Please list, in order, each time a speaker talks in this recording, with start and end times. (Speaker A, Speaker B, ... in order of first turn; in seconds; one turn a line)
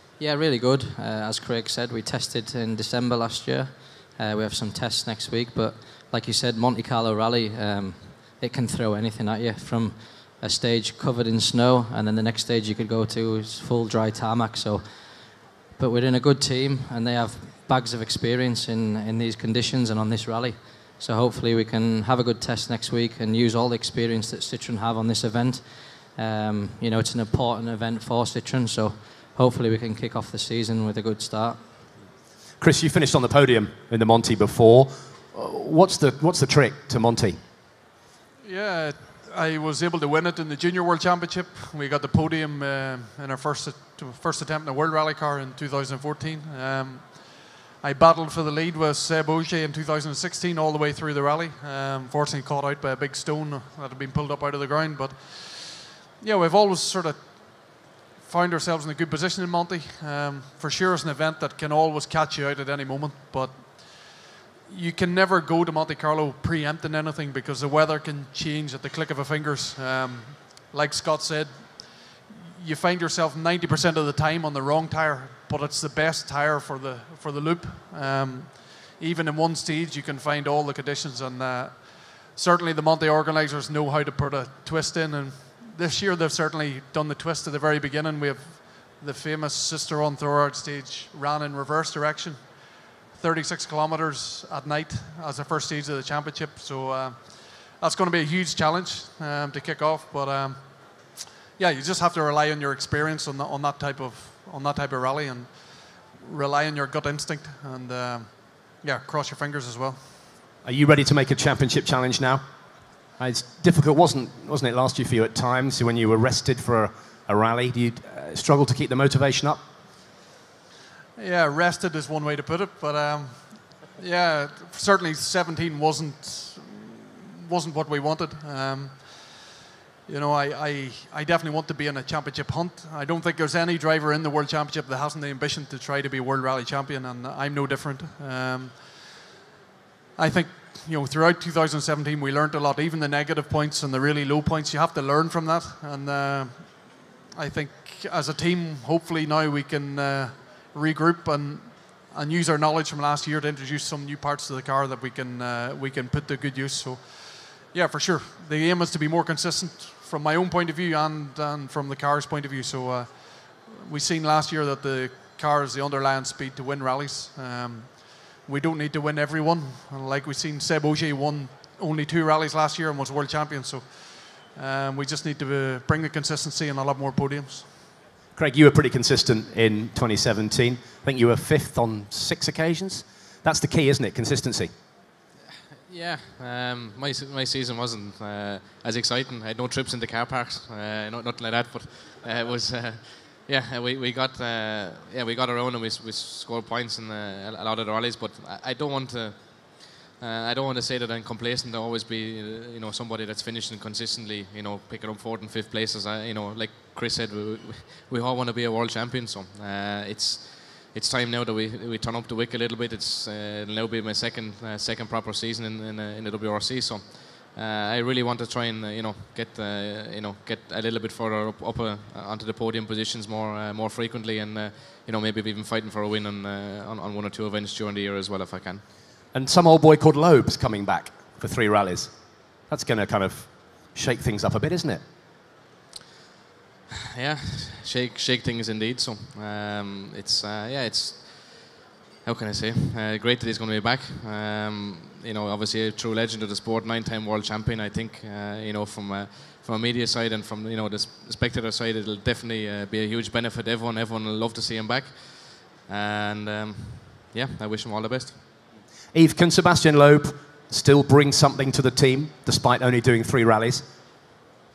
Speaker A: 0.2-31.8
Speaker B: 32.6-37.4
Speaker C: 38.4-110.1
Speaker B: 110.6-112.5
Speaker B: 113.2-119.6
Speaker C: 121.2-129.6
Speaker C: 130.1-139.3
Speaker C: 140.2-177.8
Speaker B: 178.4-184.7
Speaker D: 185.8-228.9
Speaker B: 229.3-235.0
Speaker D: 237.1-258.4
Speaker B: 259.1-263.9